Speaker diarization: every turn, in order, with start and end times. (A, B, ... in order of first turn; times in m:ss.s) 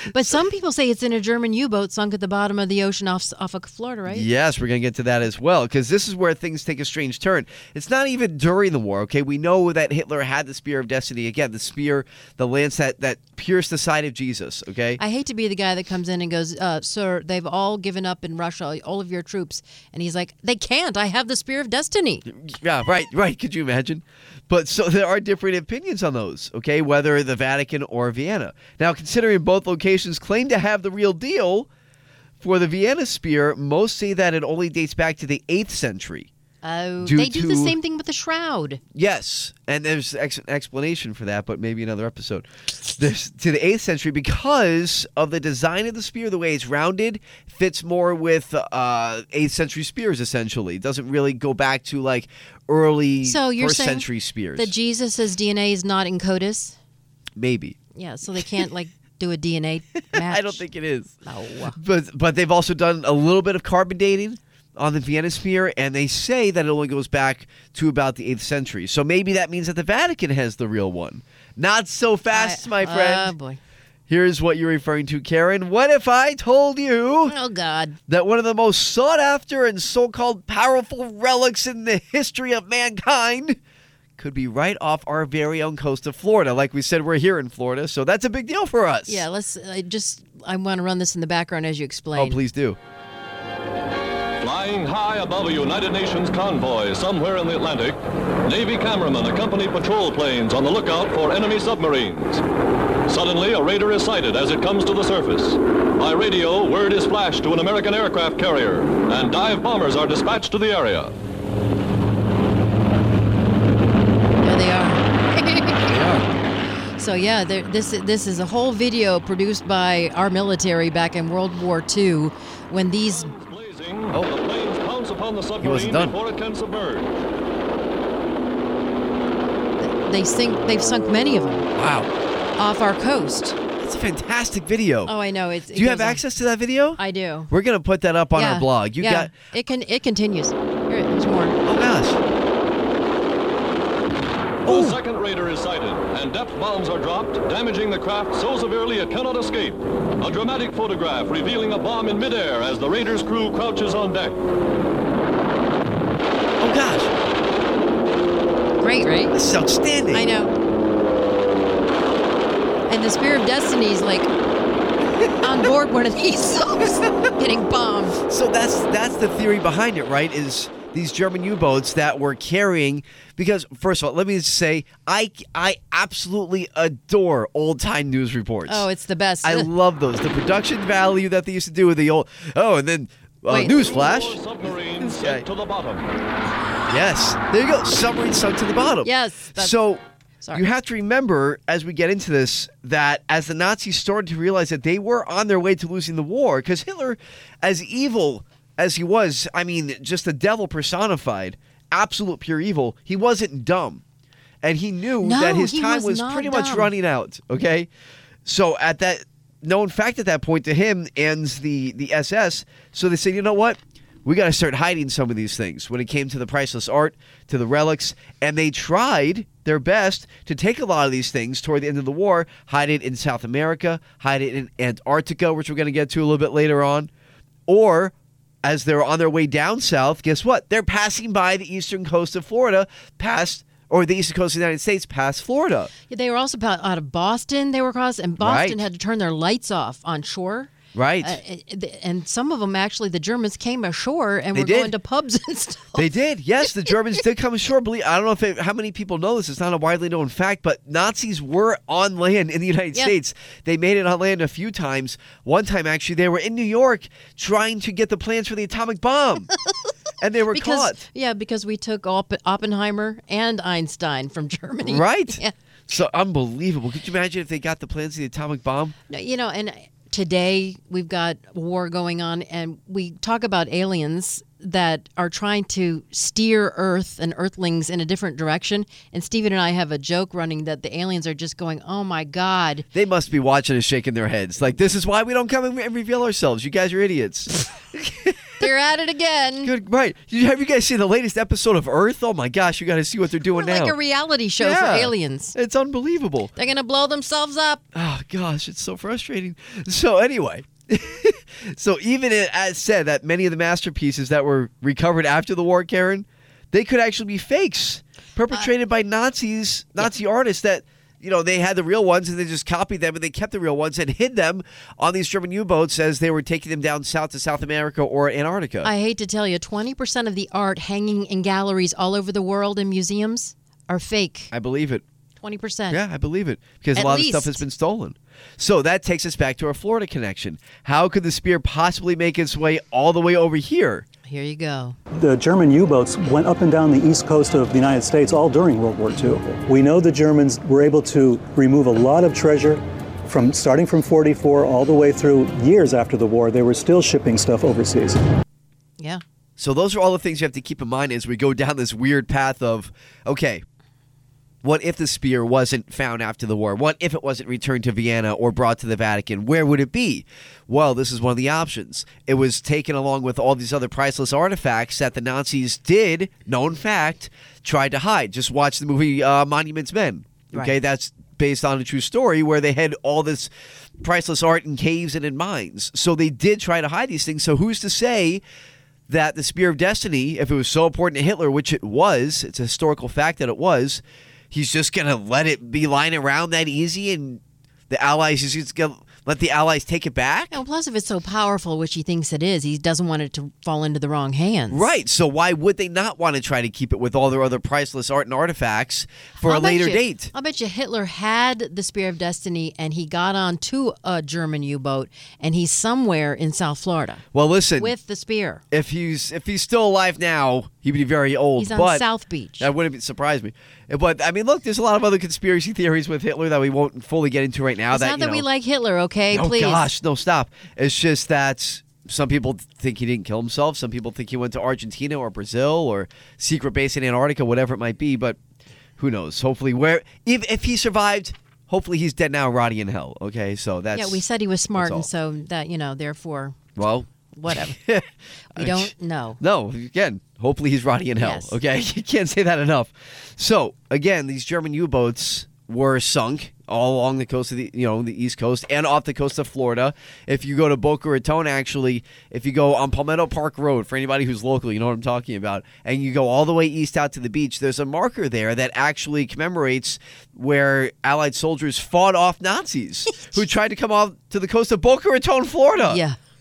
0:00.1-0:04.3 A
0:04.1-0:15.0 B
0:15.0-0:22.2 A
0:22.3-0:31.7 B
0:32.4-0:36.3 B
0:36.6-0:38.8 A
0:37.0-0:37.8 B
0:39.0-0:54.7 B
0:53.2-0:56.8 A
0:57.4-0:57.8 B
0:58.0-1:00.6 A
1:00.1-1:01.2 B
1:01.2-1:01.8 A
1:01.8-1:13.3 B
1:12.3-1:13.6 A
1:14.1-1:17.4 B
1:17.3-1:18.0 A
1:18.1-1:23.6 B
1:24.2-1:29.2 B
1:29.1-1:32.4 A
1:32.2-1:32.8 B
1:34.4-1:42.4 C
1:43.1-1:51.2 C
1:54.4-1:55.8 A
1:55.8-1:56.3 B
1:57.0-2:03.3 A
2:03.1-2:07.2 C
2:05.6-2:06.2 B
2:09.8-2:11.7 A
2:11.8-2:12.1 B
2:12.6-2:13.6 A
2:13.8-2:15.1 B
2:15.1-2:16.2 A
2:15.7-2:19.3 B
2:17.0-2:17.5 A
2:18.4-2:21.6 A
2:21.6-2:22.2 B
2:24.7-2:34.4 C
2:24.7-2:25.0 B
2:36.6-2:37.2 B
2:38.8-2:39.4 A
2:39.3-2:40.3 B
2:40.1-2:40.5 A
2:42.9-2:44.3 A
2:45.4-2:48.2 A
2:48.3-2:58.9 B
2:58.7-2:59.7 A
2:59.4-3:05.5 B
3:03.5-3:03.8 A
3:03.7-3:06.0 C
3:06.9-3:10.0 B
3:09.0-3:09.8 A
3:10.5-3:24.0 B
3:24.6-3:27.9 B
3:25.2-3:26.9 A
3:28.4-3:47.1 B
3:47.7-3:48.1 B
3:48.6-3:55.9 B
3:56.1-4:06.1 A
3:58.4-3:58.8 B
4:00.9-4:01.4 B
4:04.5-4:04.9 B
4:06.0-4:19.5 B
4:20.2-4:21.0 B
4:20.5-4:25.5 A
4:24.8-4:29.0 B
4:29.1-4:42.9 A
4:42.9-4:48.5 B
4:48.6-4:49.7 A
4:49.6-4:54.0 B
4:53.5-4:55.6 A
4:54.6-4:56.5 B
4:56.6-4:57.8 A
4:57.9-5:18.9 B
5:18.8-5:24.5 A
5:24.5-5:25.0 B
5:25.4-5:26.0 A
5:25.9-5:34.0 B
5:27.0-5:27.6 A
5:34.3-5:35.0 A
5:35.1-5:48.2 D
5:49.6-5:53.6 B
5:54.6-6:18.4 B
6:19.1-6:30.6 B
6:30.5-6:34.9 A
6:34.7-6:40.3 B
6:39.4-6:47.2 A
6:47.3-6:47.9 B
6:47.8-6:48.6 A
6:48.7-6:52.0 B
6:51.6-6:52.7 A
6:52.6-6:58.4 B
6:57.9-6:59.9 A
6:59.3-7:08.4 B
7:09.0-7:14.2 B
7:13.9-7:16.6 A
7:14.8-7:15.1 B
7:16.8-7:17.1 B
7:17.3-7:17.8 A
7:17.7-7:46.0 B
7:18.6-7:19.4 A
7:21.2-7:21.6 A
7:45.9-7:46.2 A